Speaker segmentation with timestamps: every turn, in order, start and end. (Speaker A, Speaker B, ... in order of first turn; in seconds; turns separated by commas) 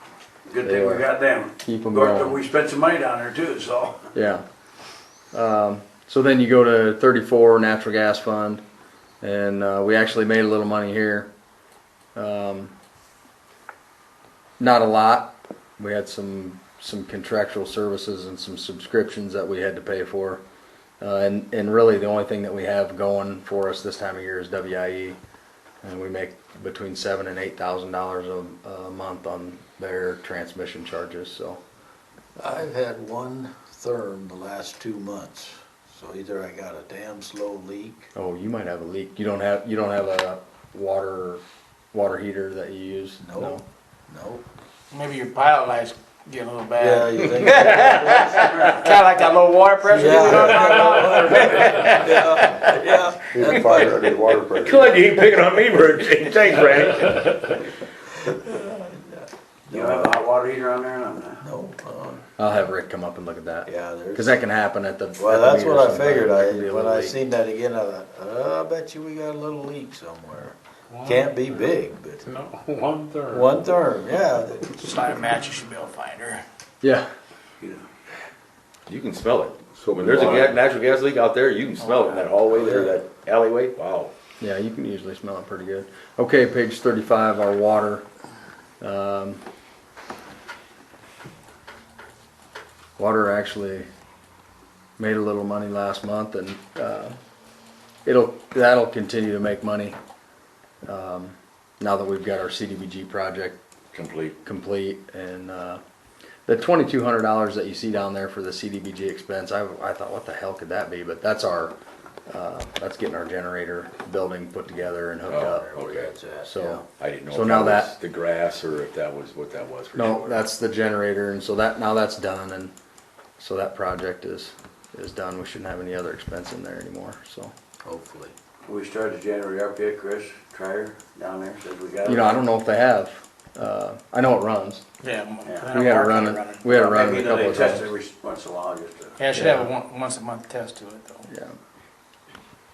Speaker A: 0.5-4.1, Speaker B: 0.6-1.1, Speaker B: 1.6-2.4, Speaker B: 4.1-4.4, Speaker B: 5.3-8.6, Speaker B: 9.2-11.3, Speaker B: 12.1-12.7, Speaker B: 14.6-20.4, Speaker B: 21.0-25.2, Speaker B: 25.8-31.6, Speaker C: 32.4-38.1, Speaker B: 38.1-41.4, Speaker B: 41.9-43.6, Speaker C: 43.2-44.4, Speaker D: 44.9-52.0, Speaker C: 46.8-48.5, Speaker E: 47.7-48.0, Speaker A: 48.4-48.9, Speaker C: 49.8-54.0, Speaker E: 50.7-52.8, Speaker F: 53.3-55.2, Speaker E: 54.6-57.3, Speaker C: 58.3-60.2, Speaker A: 59.7-61.4, Speaker C: 61.4-62.2, Speaker B: 62.4-67.2, Speaker C: 63.6-64.4, Speaker C: 65.2-72.2, Speaker G: 70.9-71.3, Speaker G: 72.2-73.7, Speaker C: 73.3-74.8, Speaker D: 74.7-76.4, Speaker B: 76.8-77.1, Speaker A: 77.6-77.8, Speaker E: 78.9-84.1, Speaker F: 79.8-80.5, Speaker B: 84.4-88.0, Speaker B: 88.8-89.4, Speaker B: 93.0-93.9, Speaker B: 95.0-97.2, Speaker B: 98.0-100.0, Speaker B: 100.8-103.6, Speaker E: 103.9-104.4, Speaker B: 104.4-105.8, Speaker B: 106.5-111.7, Speaker B: 112.3-115.7, Speaker E: 115.3-116.1, Speaker C: 115.4-116.8, Speaker B: 116.4-117.9, Speaker E: 116.9-120.4, Speaker B: 119.9-122.7, Speaker B: 123.4-127.5, Speaker C: 127.8-128.3, Speaker A: 128.7-132.4, Speaker B: 132.0-134.8, Speaker D: 135.0-136.9, Speaker A: 135.4-135.8, Speaker B: 135.7-137.9, Speaker A: 136.7-139.3, Speaker D: 139.2-141.2, Speaker B: 139.3-139.7, Speaker B: 141.3-141.6